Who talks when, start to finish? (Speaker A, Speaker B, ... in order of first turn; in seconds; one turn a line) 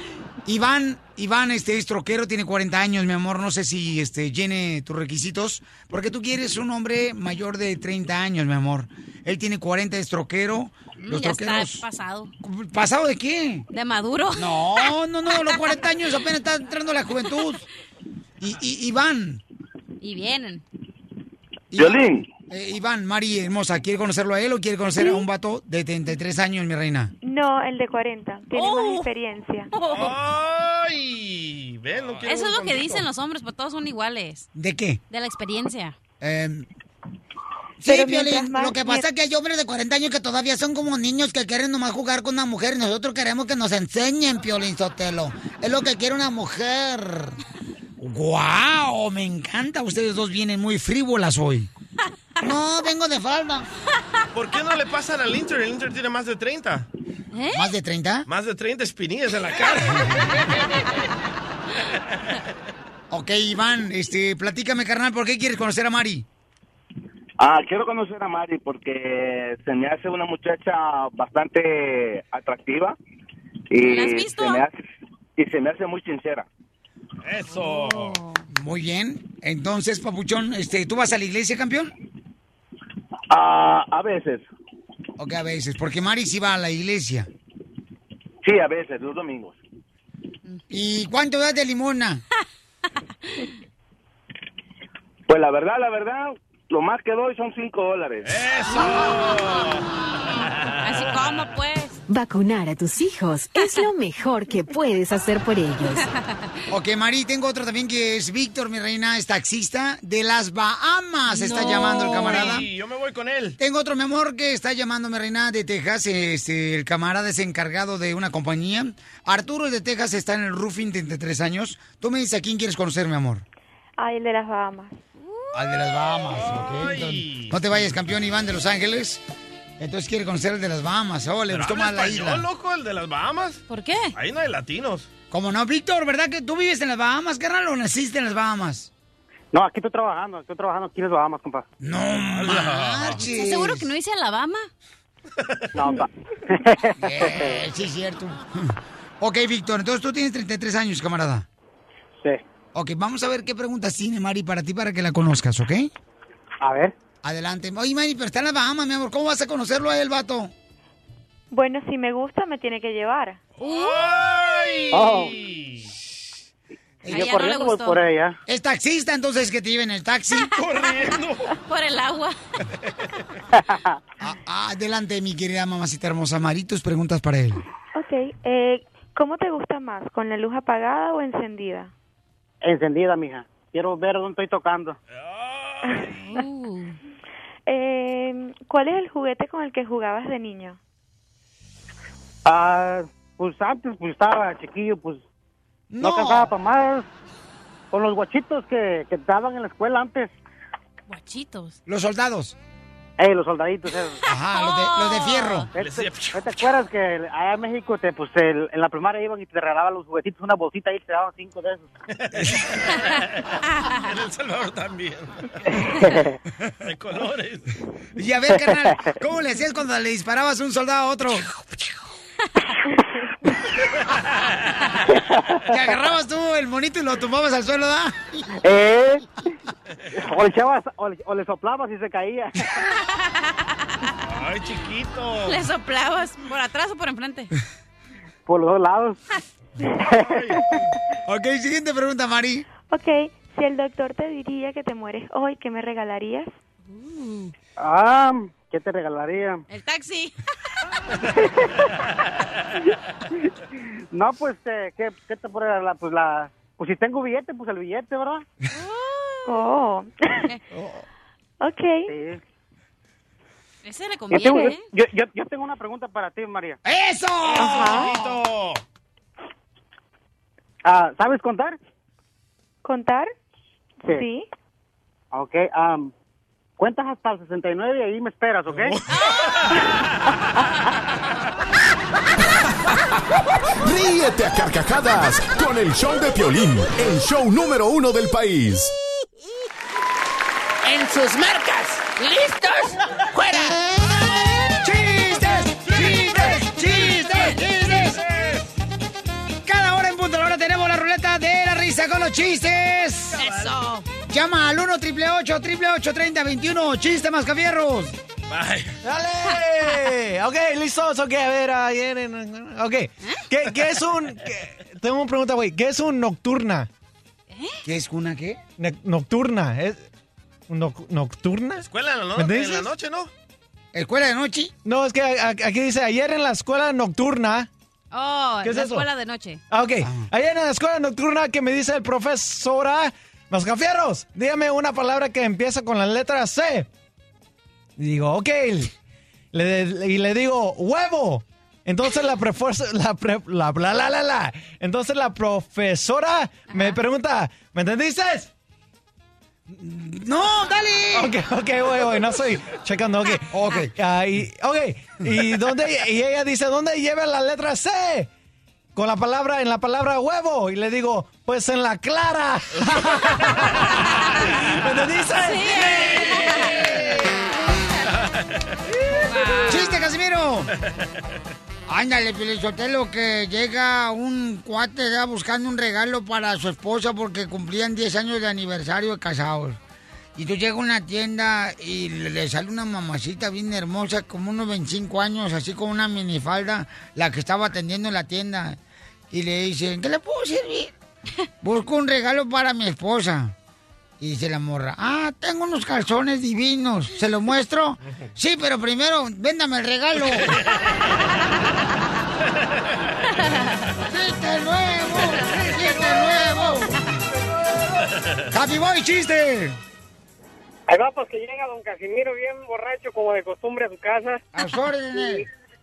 Speaker A: 0.5-11.8
Speaker B: 11.0-12.3
Speaker A: 12.4-13.7
Speaker B: 13.7-14.9
Speaker A: 14.4-17.7
Speaker A: 18.4-19.4
Speaker B: 20.0-20.6
Speaker A: 21.7-27.1
Speaker C: 21.8-22.3
Speaker D: 27.2-29.7
Speaker B: 28.5-29.1
Speaker B: 29.7-30.1
Speaker E: 29.9-33.1
Speaker B: 32.2-34.5
Speaker A: 34.5-35.0
Speaker B: 35.1-36.0
Speaker A: 36.2-36.7
Speaker A: 37.8-47.4
Speaker D: 37.8-39.1
Speaker A: 48.0-51.7
Speaker A: 52.4-53.7
Speaker E: 54.3-56.9
Speaker B: 57.3-57.7
Speaker A: 57.5-58.3
Speaker E: 58.3-60.4
Speaker A: 63.1-66.3
Speaker C: 67.4-73.0
Speaker C: 73.7-74.8
Speaker B: 73.8-74.7
Speaker C: 75.4-76.5
Speaker E: 77.2-78.2
Speaker B: 77.7-78.4
Speaker A: 78.5-81.9
Speaker C: 83.3-84.5
Speaker A: 85.2-87.3
Speaker C: 88.4-89.6
Speaker A: 90.7-92.2
Speaker C: 95.3-98.4
Speaker E: 98.2-101.0
Speaker B: 98.8-99.3
Speaker B: 100.8-102.0
Speaker F: 102.1-106.1
Speaker B: 103.6-103.9
Speaker A: 106.7-112.7
Speaker B: 111.3-112.5
Speaker E: 111.8-113.6
Speaker A: 113.6-123.4
Speaker D: 124.0-125.0
Speaker B: 125.2-125.5
Speaker A: 125.5-129.2
Speaker E: 126.3-127.6
Speaker A: 129.8-132.5
Speaker E: 131.5-133.6
Speaker B: 133.7-134.2
Speaker E: 134.1-135.1
Speaker A: 135.3-138.9
Speaker G: 139.5-141.7
Speaker A: 141.8-143.9
Speaker E: 142.3-143.3
Speaker B: 143.3-144.7
Speaker E: 145.4-145.7
Speaker G: 145.8-147.6
Speaker A: 147.0-151.5
Speaker A: 152.8-155.9
Speaker G: 156.6-156.9
Speaker A: 157.2-160.5
Speaker D: 161.5-163.4
Speaker E: 163.6-165.9
Speaker B: 163.6-164.0
Speaker G: 164.9-165.3
Speaker G: 167.1-168.4
Speaker B: 167.1-168.0
Speaker A: 168.5-170.5
Speaker E: 170.5-171.5
Speaker B: 171.7-172.4
Speaker G: 173.5-174.0
Speaker A: 174.2-177.6
Speaker D: 177.9-181.9
Speaker G: 182.6-185.0
Speaker E: 185.1-186.3
Speaker B: 186.3-187.0
Speaker D: 187.7-190.8
Speaker G: 192.5-195.2
Speaker A: 195.9-196.5
Speaker G: 196.0-197.1
Speaker G: 197.9-200.3
Speaker B: 201.1-201.8
Speaker A: 201.9-202.6
Speaker G: 203.2-204.2
Speaker A: 204.3-205.7
Speaker B: 204.5-205.7
Speaker G: 205.7-211.9
Speaker E: 205.8-206.6
Speaker E: 212.1-216.1
Speaker E: 216.8-217.7
Speaker A: 218.2-221.5
Speaker E: 224.0-225.0
Speaker G: 225.2-225.6
Speaker A: 225.7-228.4
Speaker G: 228.6-229.2
Speaker G: 230.1-232.7
Speaker B: 233.1-234.1
Speaker E: 234.2-235.6
Speaker B: 235.5-237.5
Speaker G: 238.5-239.2
Speaker G: 240.0-240.6
Speaker E: 240.1-240.8
Speaker A: 241.3-242.7
Speaker D: 242.9-246.5
Speaker B: 246.9-247.5
Speaker G: 247.8-249.6
Speaker B: 249.7-250.3
Speaker G: 251.3-251.9
Speaker G: 254.1-258.5
Speaker B: 258.7-259.6
Speaker D: 259.5-260.5
Speaker D: 261.6-262.1
Speaker G: 262.1-262.4
Speaker B: 263.9-264.9
Speaker G: 264.3-266.8
Speaker A: 266.9-268.4
Speaker E: 267.4-268.8
Speaker D: 267.6-268.1
Speaker G: 270.9-271.8
Speaker D: 272.9-273.3
Speaker D: 274.0-274.5
Speaker G: 275.3-276.1
Speaker G: 276.8-279.0
Speaker E: 278.7-280.4
Speaker B: 279.1-279.6
Speaker H: 283.8-288.9
Speaker I: 290.8-293.8
Speaker A: 294.8-298.2
Speaker E: 296.0-296.6
Speaker E: 297.8-298.7
Speaker A: 299.6-303.4
Speaker E: 303.3-303.8
Speaker B: 303.4-304.0
Speaker A: 304.3-308.2
Speaker E: 308.5-309.0
Speaker J: 309.0-316.9
Speaker B: 317.5-317.8
Speaker A: 317.9-318.6
Speaker J: 318.8-320.1
Speaker J: 320.7-322.9
Speaker E: 321.8-323.3
Speaker A: 323.9-324.7
Speaker J: 324.9-327.7
Speaker B: 328.1-329.6
Speaker J: 328.6-329.1
Speaker J: 329.7-336.9
Speaker A: 330.0-330.3
Speaker J: 338.0-338.9
Speaker J: 339.5-348.5
Speaker B: 346.7-347.0
Speaker A: 349.8-351.3
Speaker J: 351.1-358.3
Speaker A: 353.5-353.9
Speaker J: 358.9-365.8
Speaker B: 364.0-364.4
Speaker B: 365.4-366.8
Speaker E: 365.9-367.0
Speaker E: 368.0-368.8
Speaker B: 369.1-370.0
Speaker A: 369.7-370.7
Speaker E: 370.8-371.1
Speaker A: 371.9-379.8
Speaker A: 380.4-388.8
Speaker A: 389.3-390.9
Speaker A: 391.6-393.6
Speaker A: 394.2-400.6
Speaker E: 400.2-401.2
Speaker E: 402.6-403.4
Speaker B: 403.4-403.7
Speaker A: 404.1-407.1
Speaker A: 408.5-409.8
Speaker K: 410.9-414.4
Speaker A: 414.5-415.4